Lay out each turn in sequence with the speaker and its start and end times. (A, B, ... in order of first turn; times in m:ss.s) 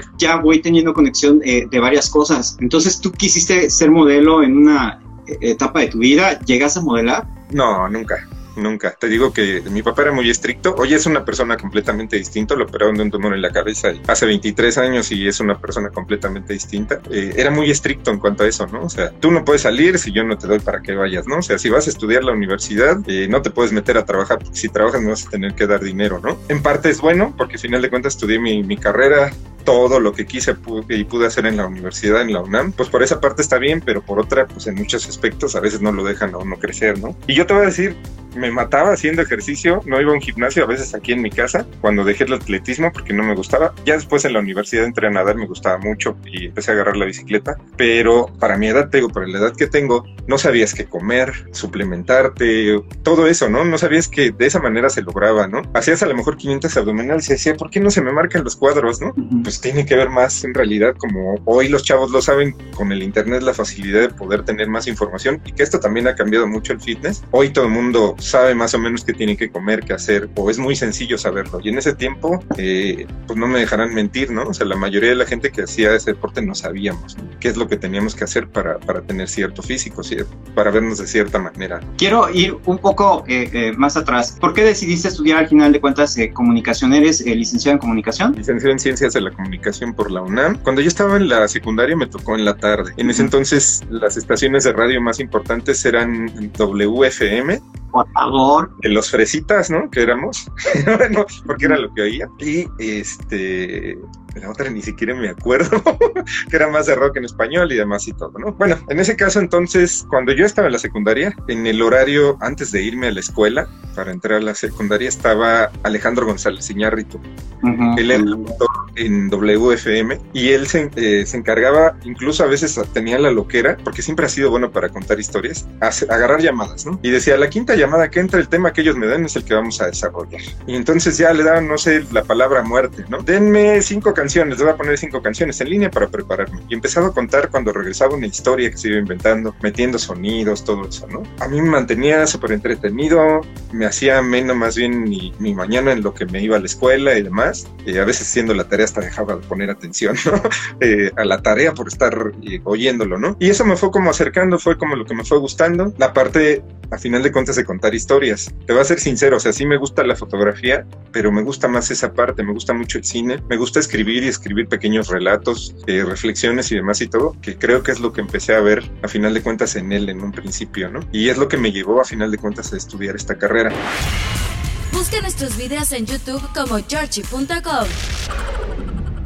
0:00.2-0:07.3 A
0:07.5-1:21.9 B
0:59.2-0:59.5 A
1:22.0-1:28.4 A
1:28.4-1:37.6 B
1:33.0-1:33.3 A
1:37.9-1:38.7 A
1:38.8-1:57.2 B
1:57.6-1:58.6 A
1:58.0-2:53.8 B
2:54.9-2:58.0 C